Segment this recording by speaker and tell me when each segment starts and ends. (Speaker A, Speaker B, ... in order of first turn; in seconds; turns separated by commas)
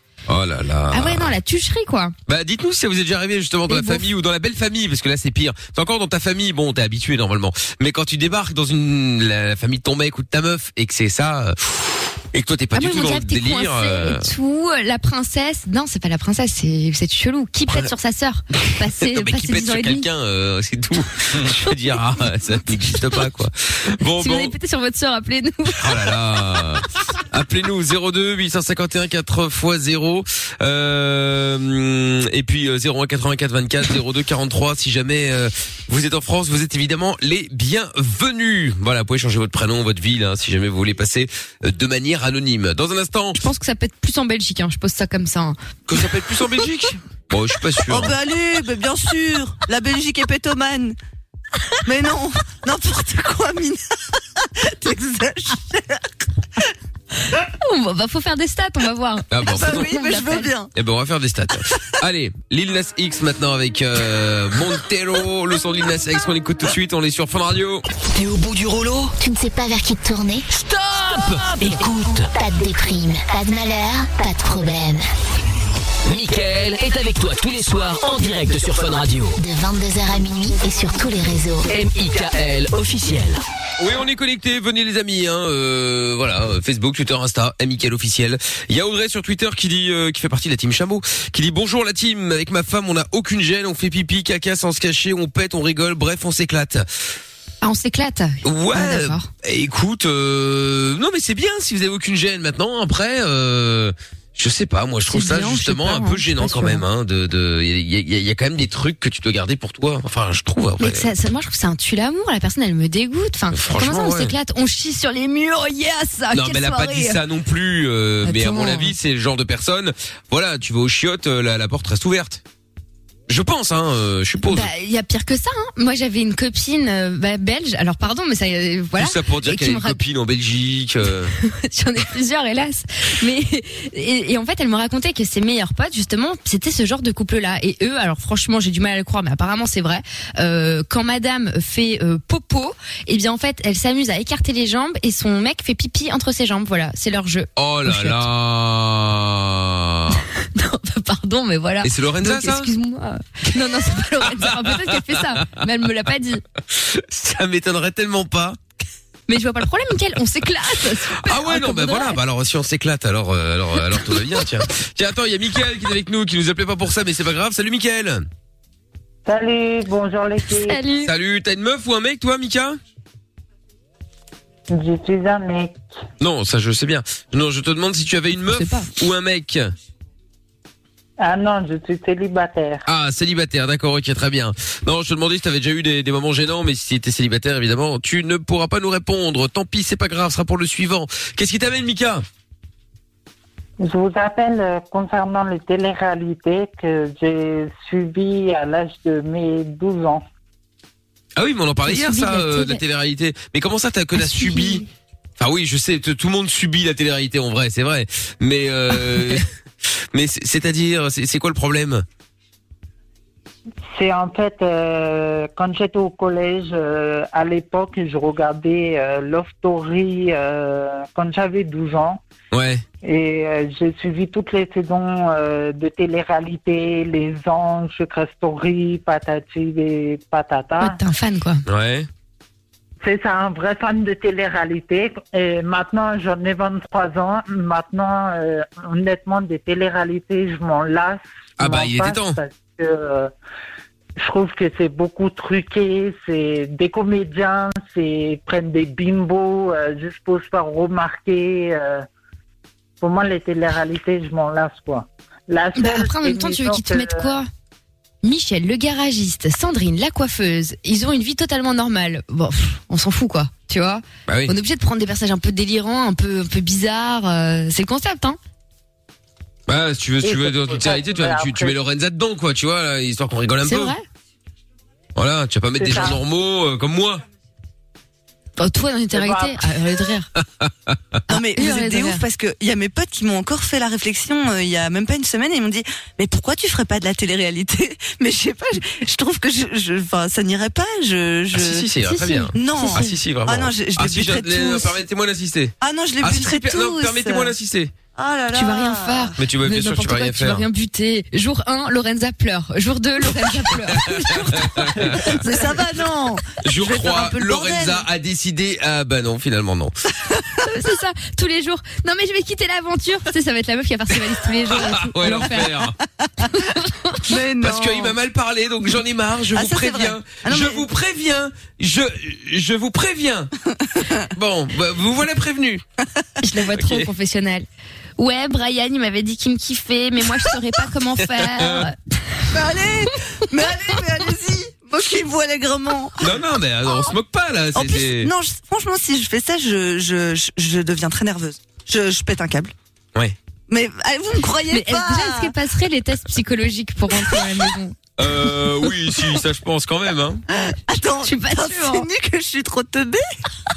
Speaker A: 0.3-1.4, Speaker B: 0.9-2.1, Speaker A: 2.3-14.3, Speaker B: 3.7-4.1, Speaker B: 12.7-20.1, Speaker A: 19.0-24.5, Speaker B: 24.2-25.9, Speaker A: 25.8-43.4, Speaker B: 43.4-45.6, Speaker A: 45.9-48.1, Speaker C: 47.9-51.0, Speaker C: 51.9-56.1, Speaker B: 57.3-60.5, Speaker A: 59.3-59.9, Speaker C: 59.5-60.7, Speaker A: 60.8-67.8, Speaker D: 68.1-69.2, Speaker E: 69.2-70.5, Speaker D: 70.5-72.3, Speaker E: 72.2-75.0, Speaker D: 76.1-79.4, Speaker E: 79.4-81.7, Speaker D: 81.7-83.4, Speaker A: 83.8-96.9, Speaker B: 97.6-99.3, Speaker A: 98.4-111.1, Speaker B: 105.1-106.8, Speaker B: 110.8-117.2, Speaker A: 113.5-114.3, Speaker A: 116.3-122.4, Speaker B: 118.2-119.0, Speaker A: 123.3-124.7, Speaker B: 124.5-130.0, Speaker A: 129.0-131.3, Speaker B: 131.4-148.2, Speaker A: 147.6-150.2, Speaker B: 150.1-156.4, Speaker A: 151.8-152.7, Speaker A: 154.2-155.6, Speaker A: 156.7-158.6, Speaker B: 159.3-162.2, Speaker A: 161.2-168.3, Speaker F: 169.3-170.8, Speaker B: 170.6-171.1, Speaker A: 171.0-172.8, Speaker F: 174.7-175.8, Speaker A: 176.2-179.7, Speaker B: 178.5-178.9, Speaker F: 181.2-182.8, Speaker A: 182.9-192.2, Speaker F: 193.8-200.2, Speaker A: 201.4-204.8, Speaker B: 201.9-202.8, Speaker B: 204.2-204.9, Speaker A: 205.4-212.1, Speaker F: 213.9-222.2, Speaker A: 222.5-222.8, Speaker F: 223.0-231.0, Speaker B: 230.8-231.6, Speaker A: 231.7-232.1, Speaker F: 233.0-243.3, Speaker A: 241.6-242.4, Speaker F: 244.2-252.1, Speaker F: 253.0-257.4, Speaker B: 255.8-257.5, Speaker B: 258.2-268.4, Speaker A: 264.3-264.5, Speaker A: 269.7-274.0, Speaker F: 270.2-271.8, Speaker B: 273.6-274.0, Speaker A: 275.2-277.2, Speaker F: 275.8-276.2, Speaker B: 278.6-280.3, Speaker F: 279.1-279.6, Speaker A: 280.4-281.0, Speaker B: 281.3-282.2, Speaker C: 281.3-291.9, Speaker A: 291.5-297.9, Speaker B: 292.1-293.1, Speaker C: 292.5-295.0, Speaker C: 295.8-297.5, Speaker C: 298.2-299.3, Speaker B: 298.5-305.4, Speaker A: 299.4-300.7, Speaker A: 303.9-305.5, Speaker C: 305.1-308.1, Speaker A: 306.6-309.9, Speaker B: 310.6-315.8, Speaker A: 314.7-316.0, Speaker B: 316.5-317.3, Speaker C: 317.2-318.2, Speaker A: 317.6-323.5, Speaker C: 319.5-320.9, Speaker C: 323.8-324.3, Speaker A: 324.3-325.8, Speaker B: 326.4-327.7, Speaker A: 326.7-327.1, Speaker B: 328.2-331.9, Speaker A: 331.3-331.9, Speaker C: 332.5-336.2, Speaker A: 336.2-338.3, Speaker C: 337.8-342.7, Speaker C: 343.7-345.5, Speaker B: 344.7-348.0, Speaker A: 348.2-350.4, Speaker C: 350.7-353.2, Speaker B: 351.2-352.1